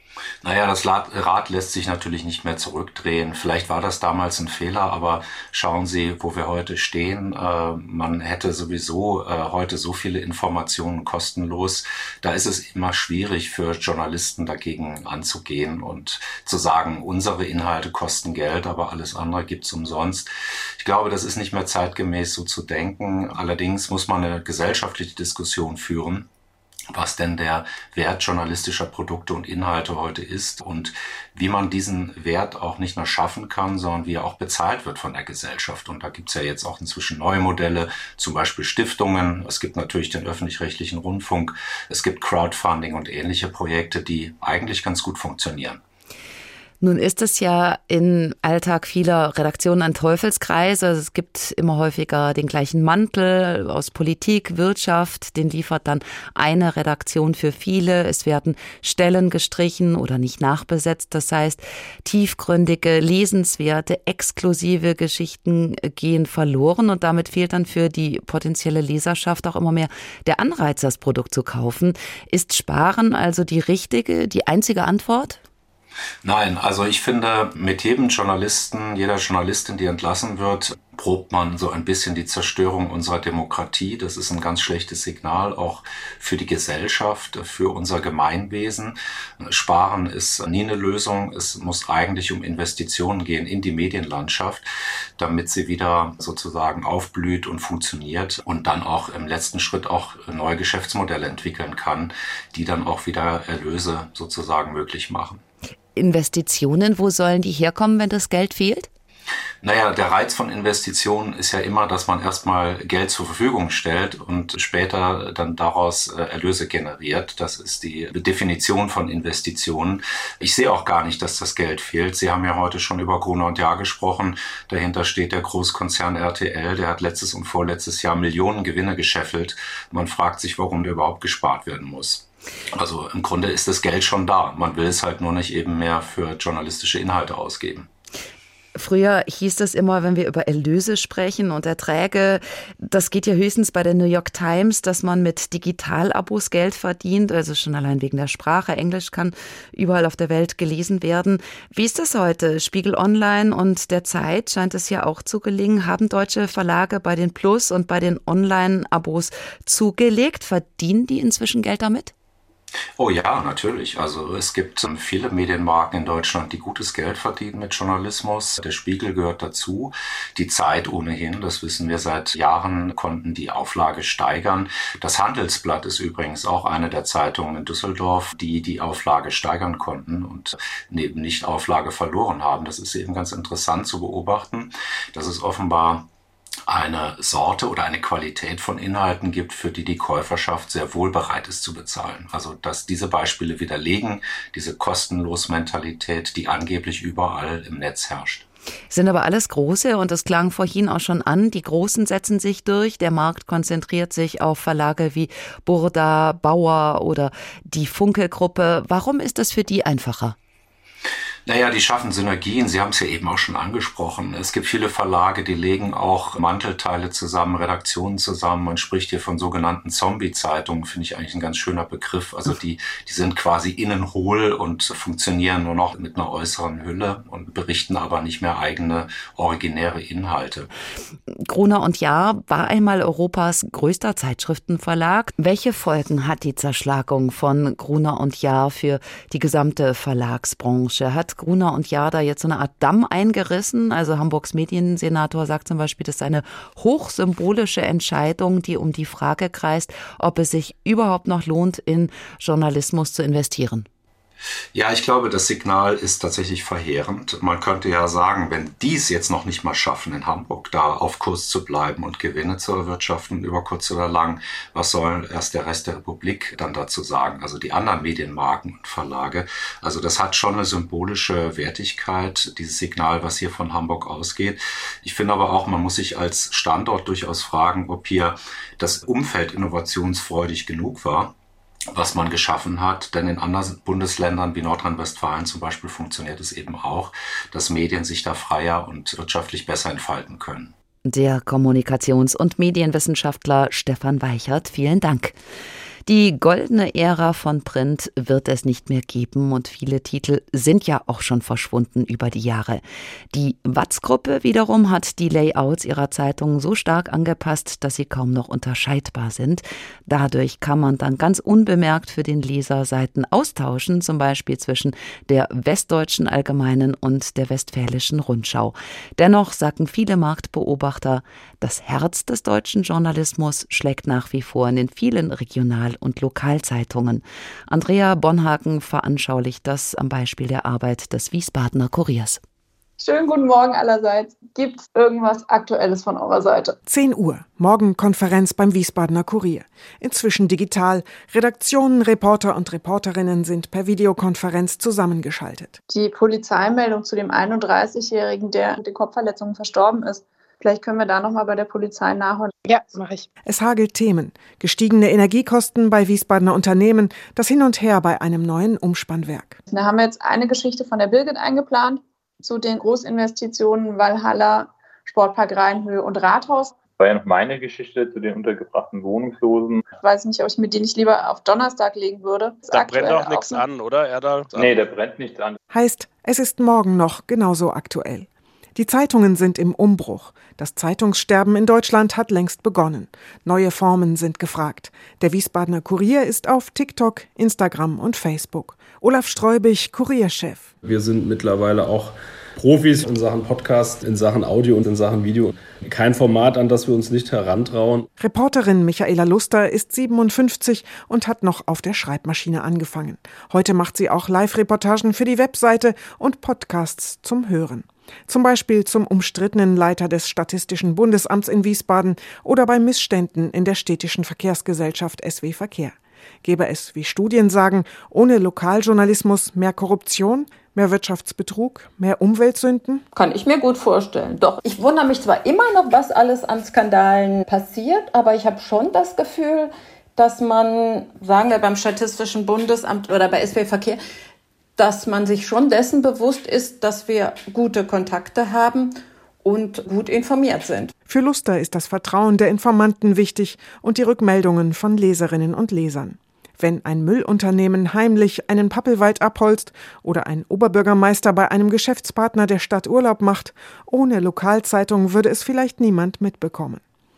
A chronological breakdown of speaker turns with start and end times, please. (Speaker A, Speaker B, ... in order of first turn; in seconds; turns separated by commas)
Speaker A: 0.4-20.3, Speaker A: 20.8-26.3, Speaker A: 26.9-45.8, Speaker B: 46.8-75.4, Speaker A: 76.2-94.6, Speaker A: 95.2-105.4, Speaker B: 106.0-108.9, Speaker A: 109.6-137.9, Speaker B: 138.8-162.1, Speaker A: 163.0-186.1, Speaker A: 186.7-198.4, Speaker B: 198.9-210.3, Speaker A: 211.4-230.7, Speaker B: 231.4-253.9, Speaker A: 254.7-281.3, Speaker A: 281.9-290.7, Speaker B: 291.1-295.4, Speaker B: 296.1-332.4, Speaker C: 333.0-336.8, Speaker D: 336.9-345.8, Speaker C: 345.9-352.5, Speaker D: 353.4-359.6, Speaker C: 359.7-366.8, Speaker E: 366.9-369.8, Speaker C: 370.0-373.7, Speaker F: 372.7-374.8, Speaker E: 374.5-375.6, Speaker D: 375.7-390.7, Speaker G: 390.8-398.1, Speaker D: 398.2-423.0, Speaker H: 423.1-434.0, Speaker H: 434.8-440.9, Speaker D: 441.1-456.8